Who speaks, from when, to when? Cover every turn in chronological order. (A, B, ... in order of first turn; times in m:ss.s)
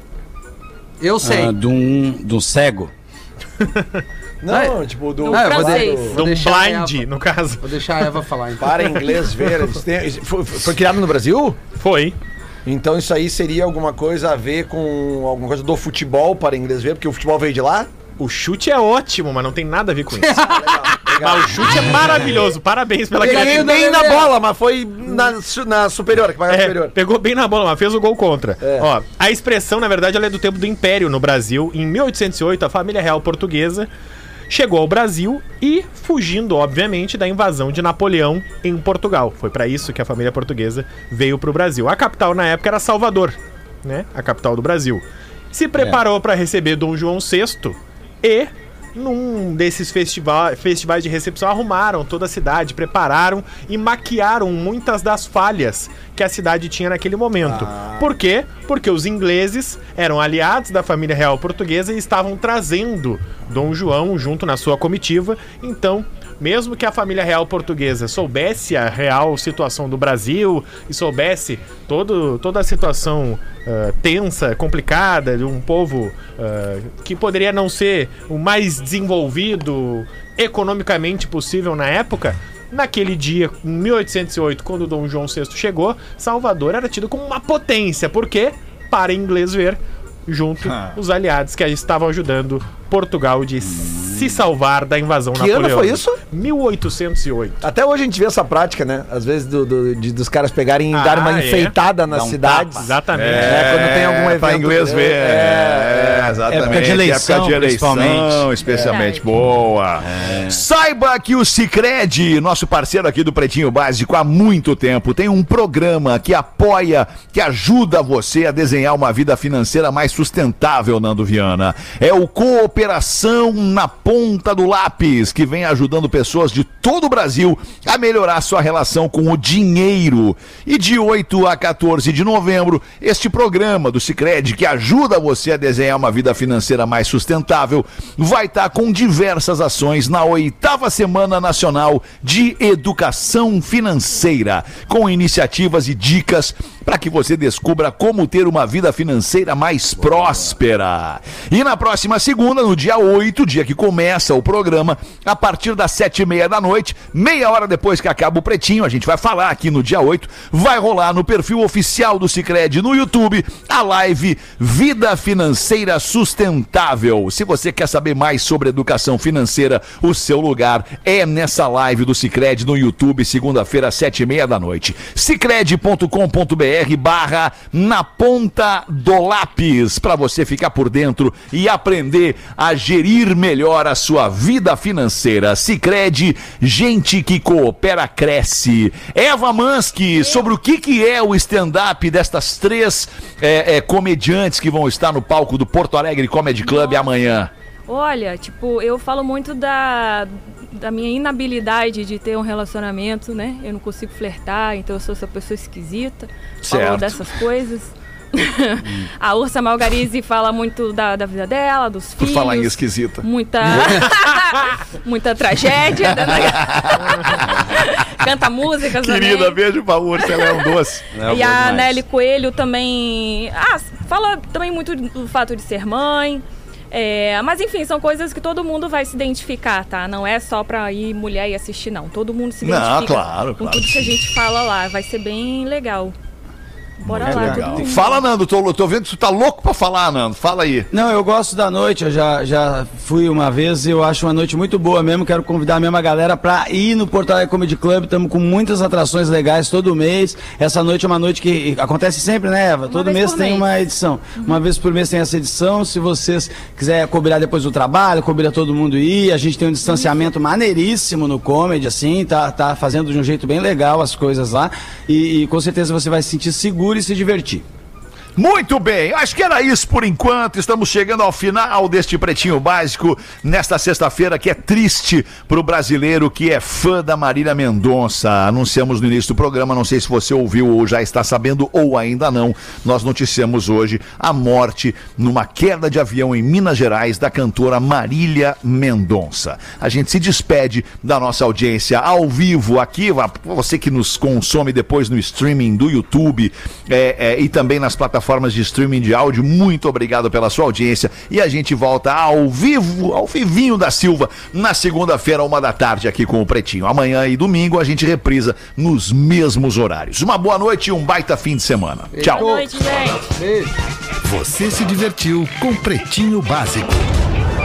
0:01.0-0:01.5 A
0:01.2-0:02.9 B
0:03.6-0:04.0 C
0:04.4-0:06.1 D
0:04.5-0:04.8 A
0:05.2-0:06.1 E
0:05.3-0:07.0 A
0:06.1-0:07.6 C
0:07.6-0:09.0 A
0:08.6-0:11.6 D
0:11.8-0:12.2 C
0:12.6-0:17.9 D
0:18.2-0:20.5 C
0:20.1-0:21.1 A
0:20.5-0:22.1 D
0:21.2-0:23.8 C
0:23.2-0:26.9 D
0:23.2-0:24.3 A
0:26.5-0:33.9 C
0:28.6-0:28.9 D
0:34.5-1:37.6 C
0:57.4-0:58.1 D
1:30.6-1:31.0 F
1:33.8-1:34.1 B
1:35.3-1:36.1 D
1:37.6-1:46.8 D
1:40.9-1:41.7 C
1:42.1-1:43.7 B
1:42.8-1:43.5 C
1:43.1-3:17.5 F
1:46.5-1:48.5 B
1:48.7-1:48.9 D
1:48.8-1:49.3 E
1:50.0-1:50.6 B
3:10.1-3:10.5 E
3:16.6-3:17.2 E
3:17.9-3:39.6 E
3:26.6-3:27.4 F
3:32.2-3:34.0 F
3:36.1-3:37.5 F
3:39.0-3:41.1 F
3:40.1-3:56.1 E
3:41.1-3:42.0 B
3:52.6-3:54.2 F
3:57.0-3:58.2 E
3:57.0-4:00.9 F
3:57.2-3:57.9 B
4:00.9-4:27.6 B
4:12.9-4:13.6 E
4:19.9-4:20.2 E
4:28.4-5:12.5 F
5:12.1-5:12.7 A
5:12.2-5:13.3 E
5:13.4-5:13.7 A
5:14.2-5:17.1 G